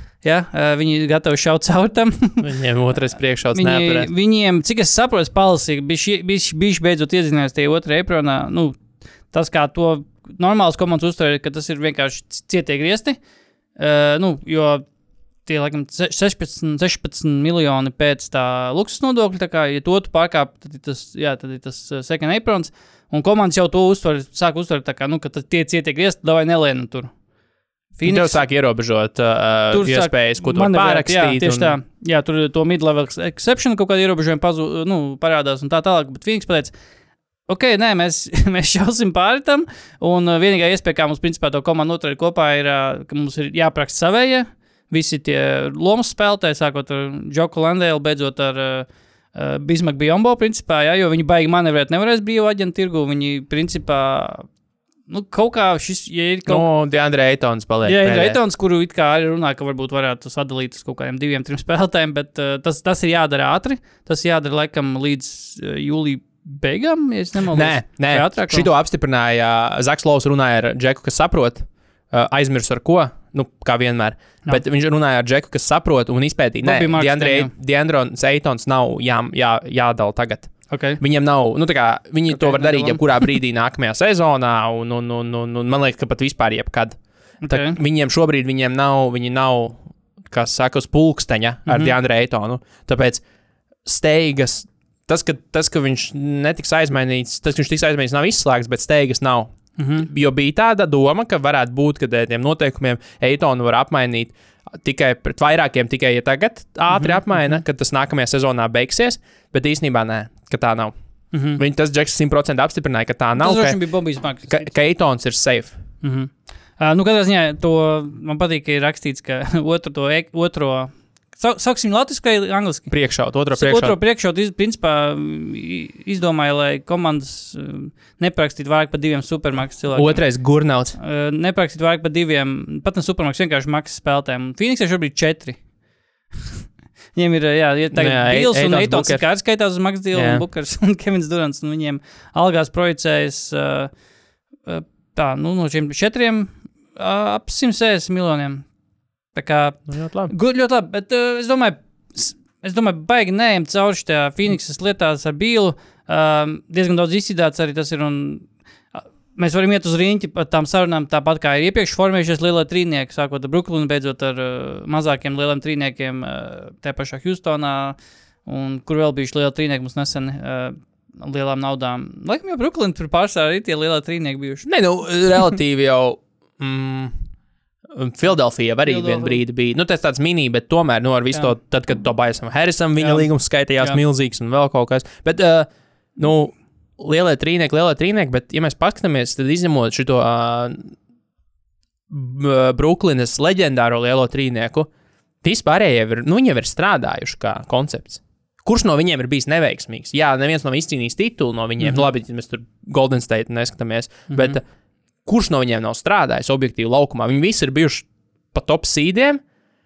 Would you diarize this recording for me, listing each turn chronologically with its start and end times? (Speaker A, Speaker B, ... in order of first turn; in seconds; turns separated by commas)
Speaker A: 0.2-2.5, Speaker B: 2.4-4.1, Speaker A: 3.5-13.2, Speaker A: 13.8-14.8, Speaker A: 15.4-27.1, Speaker A: 27.9-28.4, Speaker B: 28.0-31.8, Speaker A: 29.7-36.7, Speaker A: 37.5-54.5, Speaker A: 55.1-56.6, Speaker B: 56.5-58.4, Speaker A: 57.8-68.7, Speaker B: 67.5-87.0, Speaker A: 76.6-77.5, Speaker A: 80.7-81.0, Speaker A: 82.3-83.0, Speaker A: 87.4-87.8, Speaker B: 87.5-93.2, Speaker A: 91.7-91.9, Speaker B: 93.8-110.9, Speaker A: 99.8-100.1, Speaker A: 106.9-107.6, Speaker A: 111.3-111.6, Speaker B: 111.5-113.8, Speaker A: 113.4-114.7, Speaker B: 114.4-115.8, Speaker A: 116.0-122.9, Speaker B: 122.9-124.0, Speaker A: 123.5-130.2, Speaker B: 129.9-131.0, Speaker A: 131.0-135.6, Speaker A: 137.1-143.9, Speaker B: 137.9-139.3, Speaker B: 140.1-140.4, Speaker A: 144.6-148.7, Speaker A: 149.3-174.7, Speaker B: 149.9-150.3, Speaker B: 174.7-177.2, Speaker B: 177.9-190.9, Speaker A: 178.8-179.4, Speaker A: 183.0-183.3, Speaker B: 192.1-194.9, Speaker B: 195.4-204.6, Speaker A: 201.8-202.1, Speaker A: 204.3-204.6, Speaker B: 205.2-209.4